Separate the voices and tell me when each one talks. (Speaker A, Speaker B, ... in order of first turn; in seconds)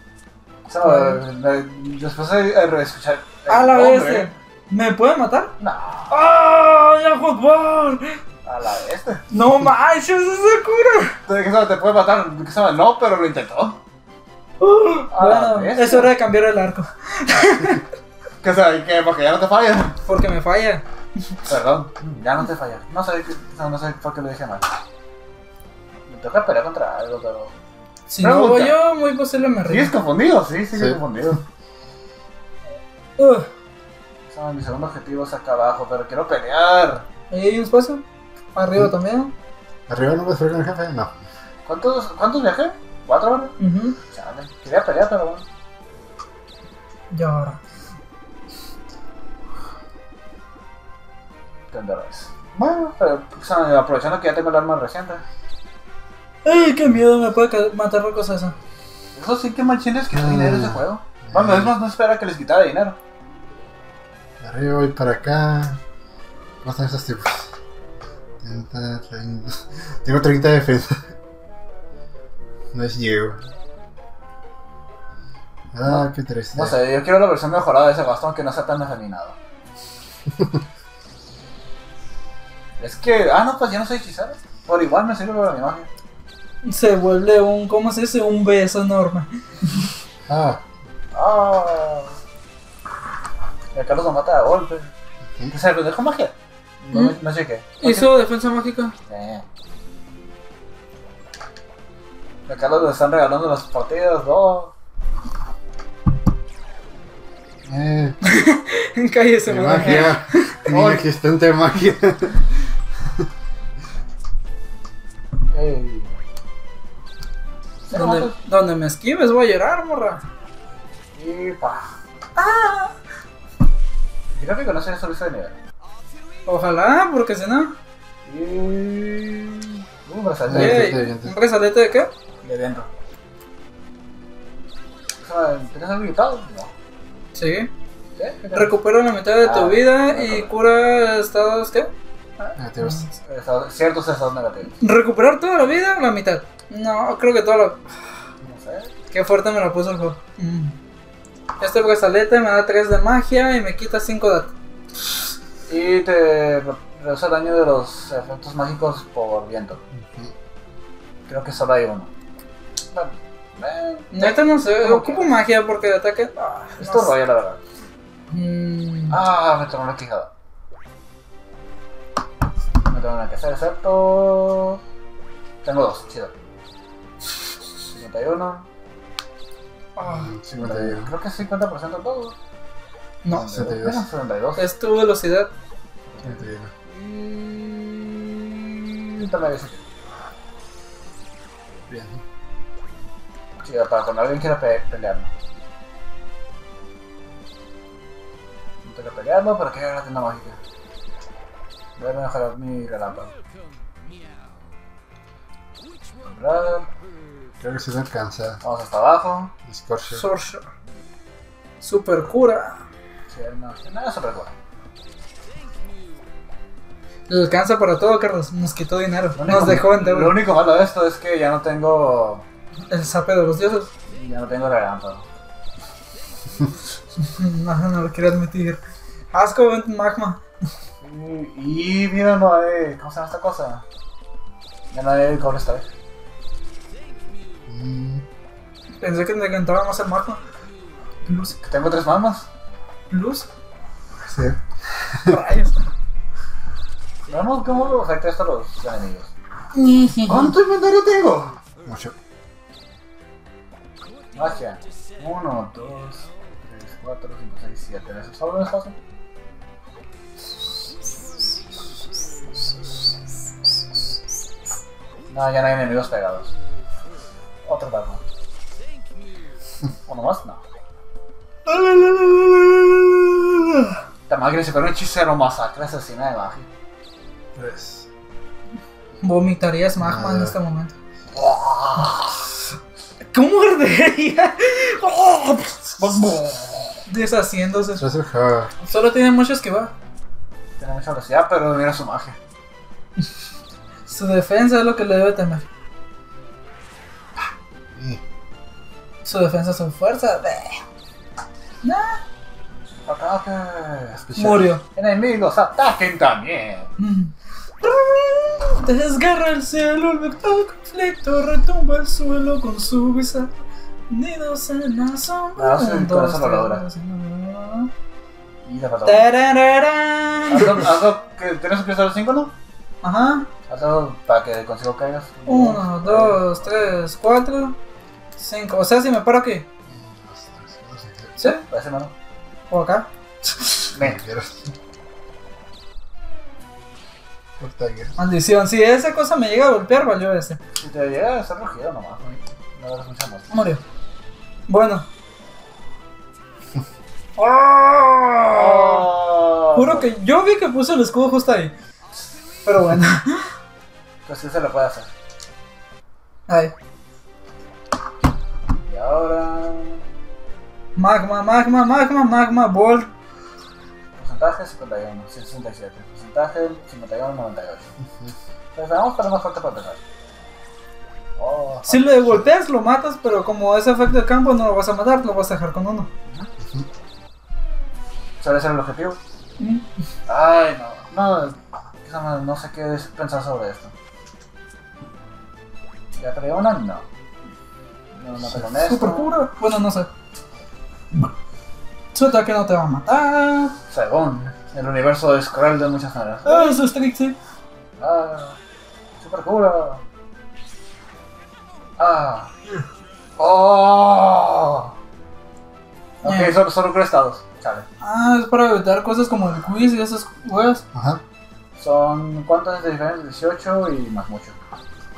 Speaker A: 0.7-4.3, 5.6-6.2, 8.4-9.2, 11.3-13.8, 15.1-16.1, 18.4-20.0, 21.4-24.6, 26.1-27.5, 28.2-28.8, 29.7-31.4, 34.3-37.0, 41.6-43.5, 44.1-45.4, 51.7-55.2, 59.1-63.0, 75.8-79.4, 82.8-85.9, 91.1-92.1, 93.7-94.9, 95.5-98.1, 99.1-99.4, 102.5-104.7, 110.7-111.0, 115.5-116.1, 117.9-118.3, 121.1-121.9, 124.3-125.5, 128.2-130.9, 132.4-132.9, 135.2-136.7, 138.2-138.7, 139.4-140.5, 143.2-144.7, 148.4-148.9, 155.7-159.8, 161.3-162.1, 162.9-165.3, 166.8-167.6, 169.1-170.3, 172.8-174.8, 175.6-176.3, 177.9-178.7, 180.5-182.3, 183.3-184.7, 186.2-189.8, 193.6-195.3, 198.8-200.6, 202.0-203.3, 206.2-206.9, 208.6-209.5, 213.3-214.5, 219.3-222.4, 224.1-225.2, 231.0-233.8, 234.9-235.9, 241.6-242.4, 244.3-244.5, 247.3-249.3, 250.3-251.6, 254.3-259.0, 265.3-266.5, 267.6-268.2, 270.1-270.6, 274.3-276.7, 281.3-282.5, 286.0-287.0, 290.8-292.4, 303.1-306.9, 315.6-316.8, 318.6-319.3, 320.5-322.5, 323.7-326.9, 331.4-332.1, 333.9-334.2, 340.8-343.5, 348.5-350.1, 354.2-355.1, 358.9-360.1, 364.1-367.9, 368.8-370.0, 371.4-372.1, 378.4-379.2, 380.3-383.9, 386.2-387.0, 388.1-389.3, 393.9-396.8, 398.0-398.6, 399.2-400.0, 402.0-402.5, 403.4-404.9, 406.2-407.9, 411.8-414.6
Speaker B: 0.8-1.2, 3.5-5.5, 6.1-8.2, 9.3-11.2, 14.6-17.8, 20.1-21.3, 28.1-29.9, 33.2-33.5, 37.3-38.0, 38.5-39.3, 43.6-44.0, 47.1-47.6, 56.4-58.5, 86.6-89.8, 96.9-97.2, 97.8-98.9, 108.2-110.6, 117.9-120.2, 122.3-122.9, 126.5-127.7, 130.5-132.1, 137.3-137.7, 138.5-143.1, 144.8-147.8, 149.1-150.7, 151.6-154.5, 164.1-167.1, 168.3-169.2, 180.0-180.3, 183.2-183.7, 184.6-185.5, 210.1-210.6, 211.8-212.8, 217.3-220.4, 222.9-223.9, 227.2-228.8, 229.3-230.4, 239.0-240.4, 241.2-241.5, 243.1-243.5, 245.2-245.8, 249.7-250.5, 271.7-273.9, 279.2-280.9, 283.3-286.0, 287.1-288.0, 288.8-289.9, 294.1-295.6, 299.2-300.8, 301.8-302.2, 304.4-304.8, 307.0-313.5, 314.1-317.9, 319.0-320.9, 323.0-323.5, 325.5-327.8, 328.4-329.6, 332.7-333.9, 338.2-340.6, 343.5-343.8, 344.7-345.1, 347.4-349.1, 349.7-351.7, 352.6-353.5, 356.5-356.7, 360.9-363.1, 371.9-376.1, 379.6-379.8, 388.6-390.1, 392.1-393.7, 396.4-397.3, 406.2-406.6, 408.0-410.8
Speaker C: 30.7-31.0, 39.9-41.1, 60.1-61.7, 64.4-65.8, 66.6-67.5, 68.4-71.1, 72.7-73.4, 75.7-76.8, 80.3-80.6, 90.3-90.6, 107.7-108.2, 109.5-112.4, 130.5-131.3, 142.6-143.0, 159.9-160.3, 180.0-181.1, 183.4-184.0, 186.2-186.7, 191.9-192.2, 207.6-208.6, 209.7-210.2, 237.7-238.2, 251.8-252.1, 277.6-278.1, 280.0-280.5, 288.0-288.7, 297.9-298.2, 329.9-331.3, 334.0-334.7, 337.6-338.1, 376.6-376.9, 410.9-411.2